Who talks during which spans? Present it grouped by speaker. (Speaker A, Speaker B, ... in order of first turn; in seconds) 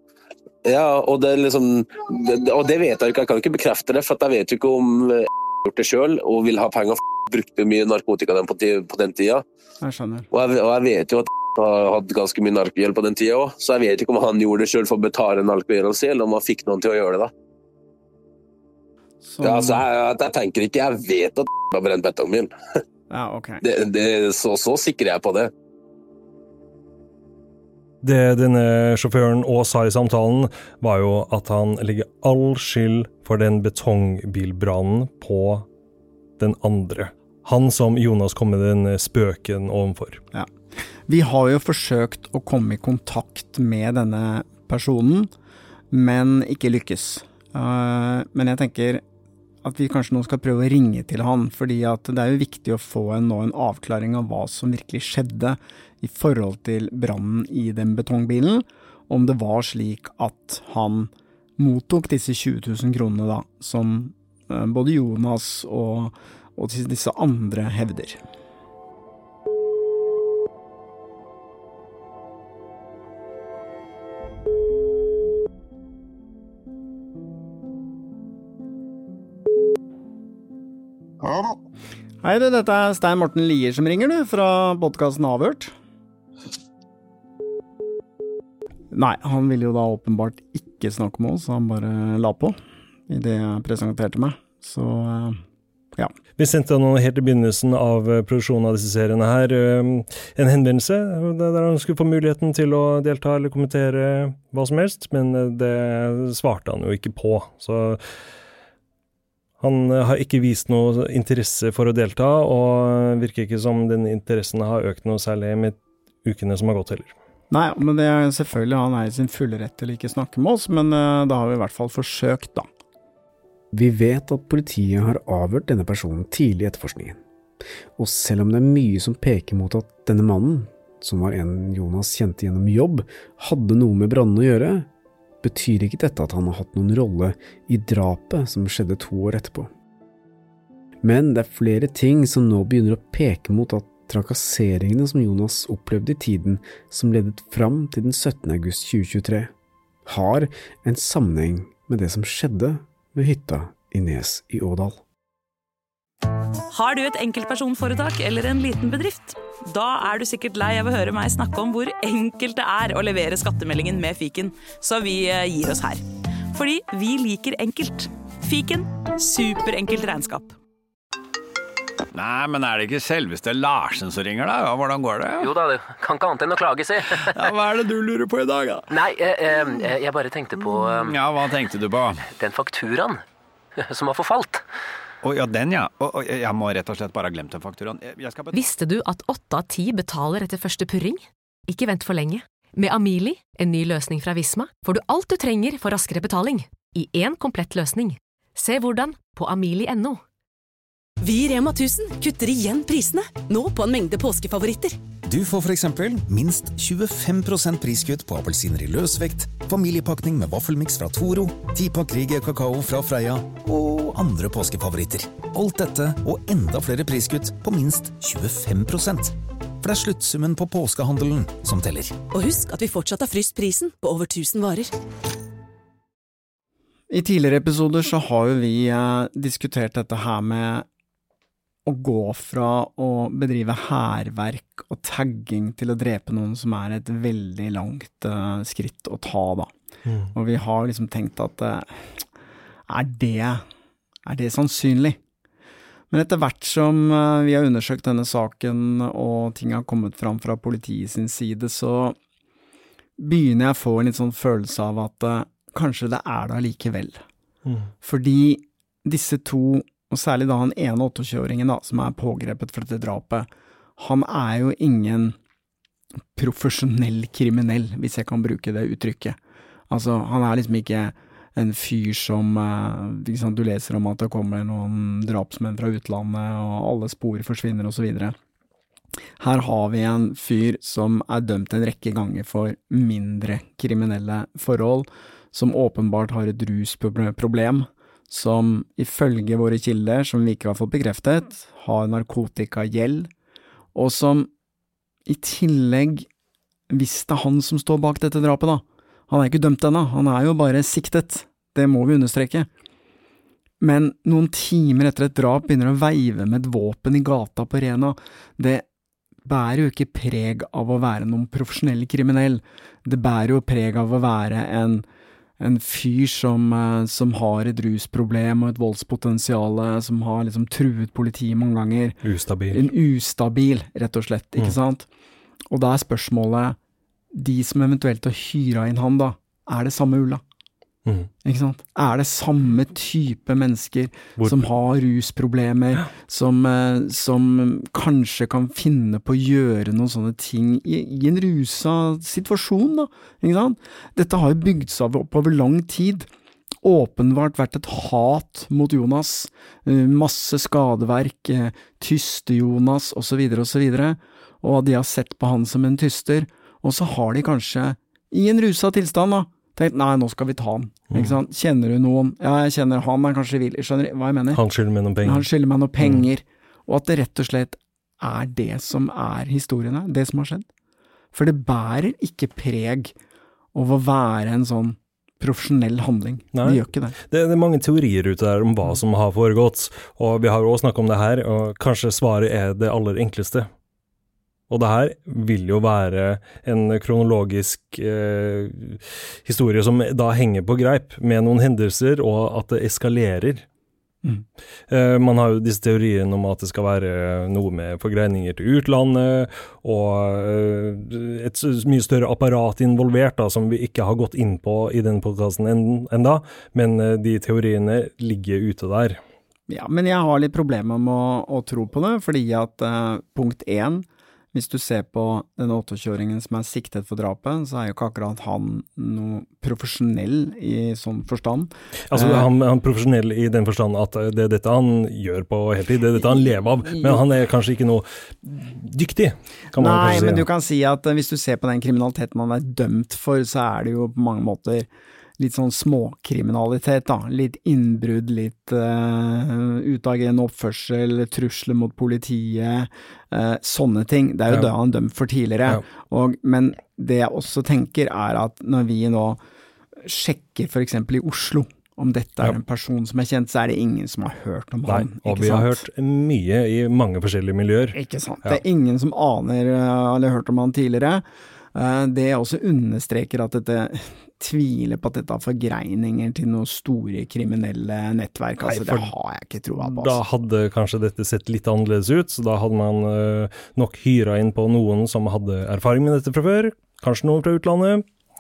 Speaker A: 0.7-9.4, 10.3-17.3, 19.4-22.5, 23.6-25.5
Speaker B: 9.8-10.3, 19.2-19.9, 23.1-23.6, 41.1-45.3, 45.9-49.0, 49.6-68.2, 82.2-85.7, 88.9-92.6, 93.1-95.4, 117.5-122.7, 227.1-230.9, 231.9-239.7, 240.3-242.2, 242.9-243.6, 244.3-245.2, 246.1-252.2, 253.2-257.2, 258.0-265.4, 266.4-269.4, 269.9-278.4, 279.4-293.3, 293.9-294.5, 295.3-296.3, 296.9-302.7, 303.8-308.9, 309.4-315.1, 315.6-322.2, 322.7-325.1, 325.7-326.8, 327.3-330.4, 331.4-346.3, 346.8-364.6, 365.2-370.7, 371.3-373.1, 373.8-377.2, 409.7-422.5, 429.8-434.9, 435.4-449.4, 450.0-455.9, 457.9-461.2, 461.8-470.2
Speaker C: 28.0-35.7, 36.4-40.2, 96.4-108.0, 109.6-117.1, 240.1-240.3, 257.7-257.9, 322.2-322.8, 361.1-361.4, 364.5-365.5, 366.0-366.3, 376.5-383.7, 384.7-393.7, 394.9-409.2, 422.1-430.4, 454.9-458.6, 468.6-469.1, 469.8-478.1
Speaker D: 123.7-127.2, 128.0-134.9, 135.4-139.7, 141.0-149.5, 150.1-155.0
Speaker E: 156.7-170.6
Speaker F: 172.1-175.6, 177.3-178.7, 180.7-182.3, 185.2-188.6
Speaker G: 175.4-177.1, 178.9-181.1, 182.4-183.2, 183.9-184.6
Speaker H: 188.5-200.2
Speaker I: 201.2-205.0, 222.3-224.9
Speaker J: 205.3-222.2